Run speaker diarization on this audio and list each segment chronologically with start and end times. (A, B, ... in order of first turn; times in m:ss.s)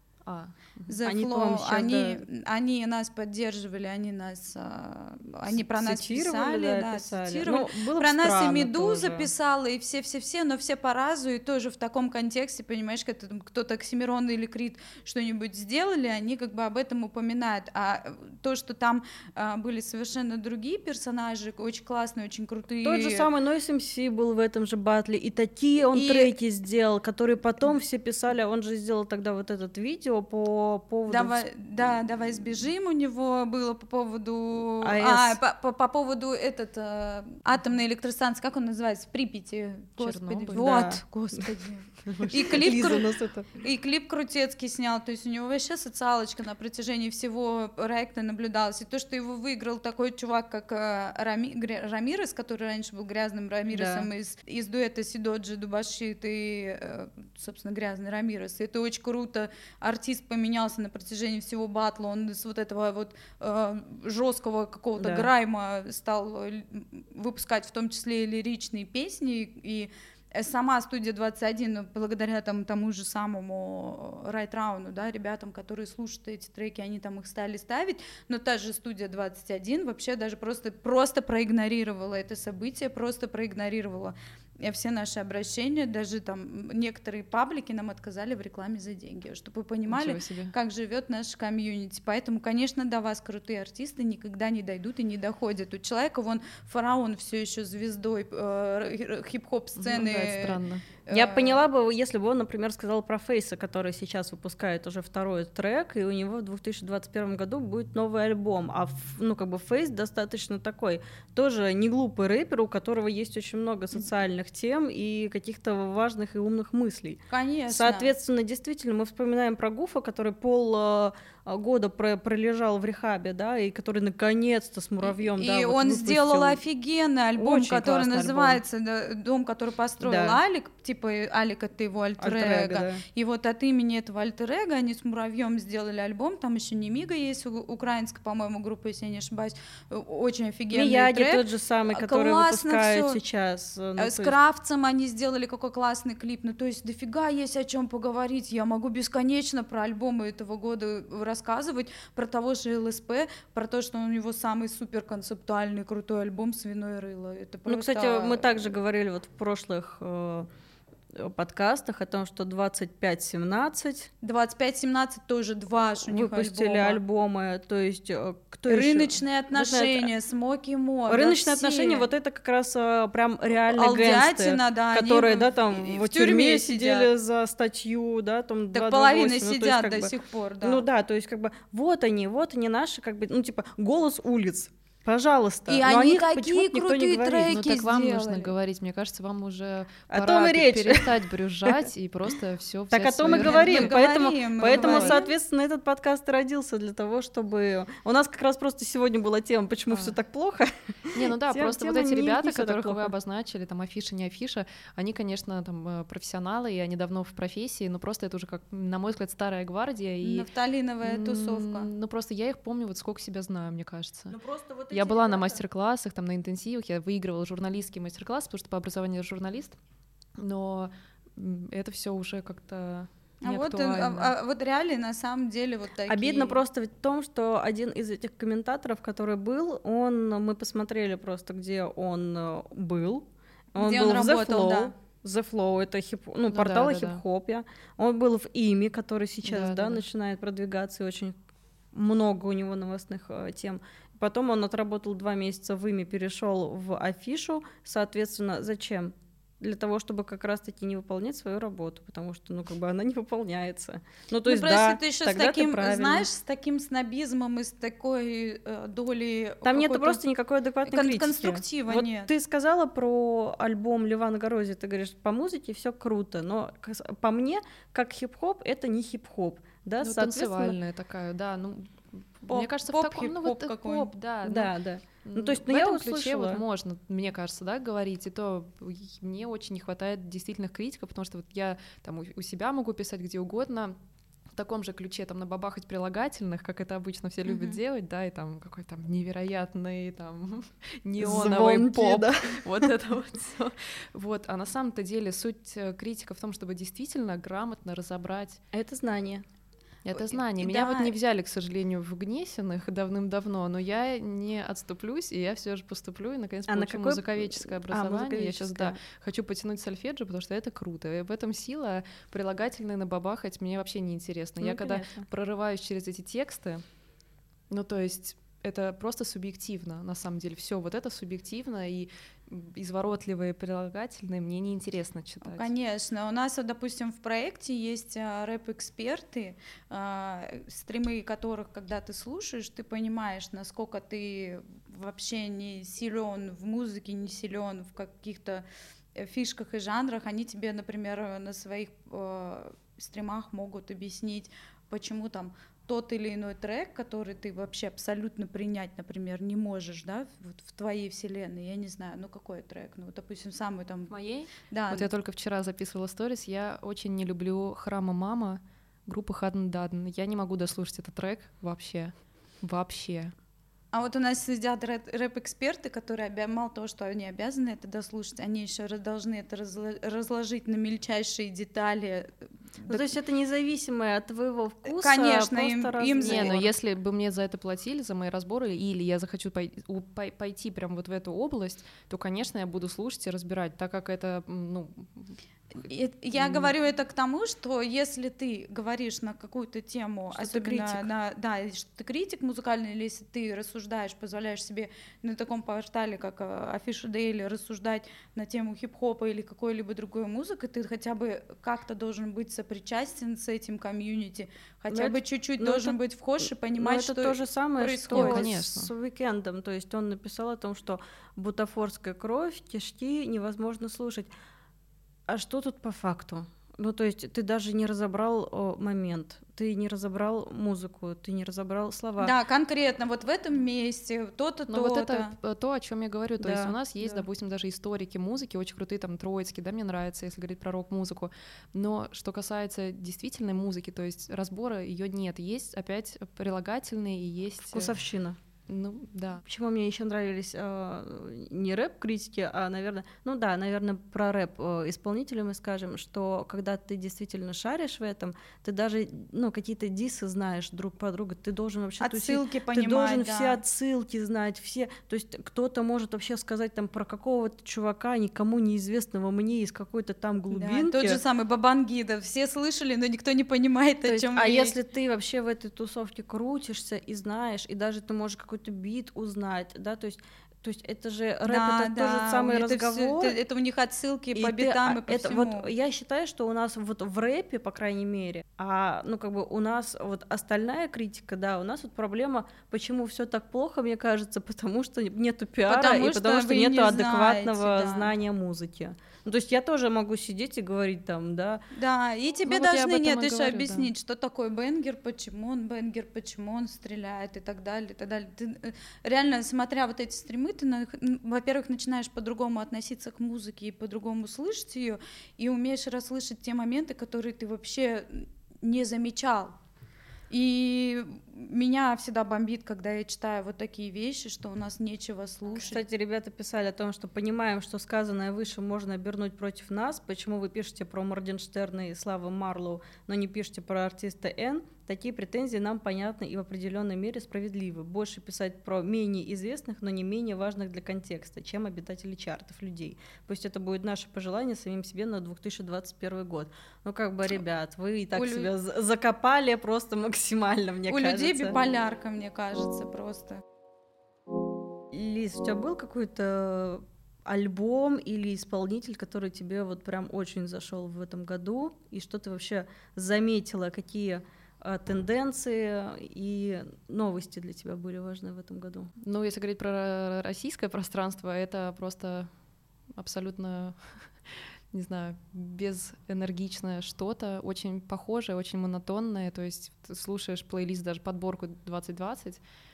0:00.2-0:00.9 A
0:00.9-0:23.3 B
0:01.0-0:02.2 C
0:05.5-0:09.3 C
0:22.8-0:31.4 C
0:25.9-0:26.3 B
0:31.1-1:41.6 B
0:34.8-0:35.4 C
0:40.0-0:40.7 A
0:40.5-0:41.5 C
0:42.0-0:42.3 A
0:42.3-0:43.5 C
0:53.7-0:54.1 C
1:05.0-1:05.3 C
1:29.9-1:30.5 A
1:39.8-1:40.9 A
1:41.1-2:06.6 C
1:57.3-1:58.1 B
2:05.2-2:23.2 B
2:07.4-2:08.6 C
2:10.0-2:10.4 C
2:12.2-2:13.0 C
2:20.7-2:24.4 C
2:24.0-2:38.7 B
2:37.7-2:40.5 C
2:41.1-2:44.1 C
2:44.2-2:47.0 B
2:46.1-2:50.1 C
2:48.7-2:52.1 B
2:51.1-3:07.5 C
2:53.7-2:57.1 B
2:58.7-3:00.8 B
3:05.7-3:08.5 B
3:07.5-3:14.0 A
3:10.1-3:11.8 C
3:12.9-3:23.1 C
3:13.3-3:15.3 B
3:14.7-3:15.2 A
3:19.9-3:20.2 A
3:21.1-3:30.5 A
3:30.2-3:31.9 B
3:31.0-3:34.4 A
3:34.3-3:35.6 C
3:34.9-3:39.8 A
3:40.4-3:44.3 A
3:43.4-3:46.6 B
3:46.1-4:01.4 C
3:53.8-3:54.9 B
3:56.5-3:57.2 A
3:59.4-4:00.0 A
4:01.9-4:16.3 C
4:14.5-4:20.2 B
4:19.6-4:30.8 C
4:20.9-4:22.3 B
4:30.0-4:34.7 A
4:32.5-4:34.1 B
4:34.5-4:36.6 C
4:35.2-4:44.0 A
4:44.5-4:58.6 A
4:51.2-4:52.9 C
4:58.7-4:59.4 C
5:00.1-5:16.8 A
5:00.3-5:01.2 B
5:06.7-5:09.0 C
5:14.6-5:15.3 C
5:17.7-5:25.7 A
5:25.4-5:55.1 B
5:54.1-6:03.3 A
6:03.9-6:13.1 B
6:12.9-6:16.7 C
6:14.9-6:16.6 B
6:16.2-6:25.4 A
6:25.8-6:48.5 B
6:26.4-6:26.7 A
6:30.3-6:31.1 C
6:44.9-6:54.3 C
6:48.1-6:48.9 A
6:55.3-7:02.3 C
7:02.2-7:05.3 B
7:04.7-7:18.0 A
7:06.4-7:07.3 B
7:17.7-7:18.4 C
7:18.7-7:19.4 A
7:19.4-7:41.2 C
7:32.0-7:33.6 B
7:40.5-7:44.8 B
7:44.1-7:53.4 C
7:51.5-7:55.7 B
7:54.4-8:11.6 C
8:05.7-8:08.1 B
8:11.7-8:29.6 B
8:12.4-8:13.9 A
8:30.3-8:35.8 B
8:35.6-9:01.6 C
8:58.2-8:58.5 B
9:00.9-9:03.4 B
9:04.9-9:18.9 C
9:19.0-9:22.3 A
9:23.0-9:32.4 A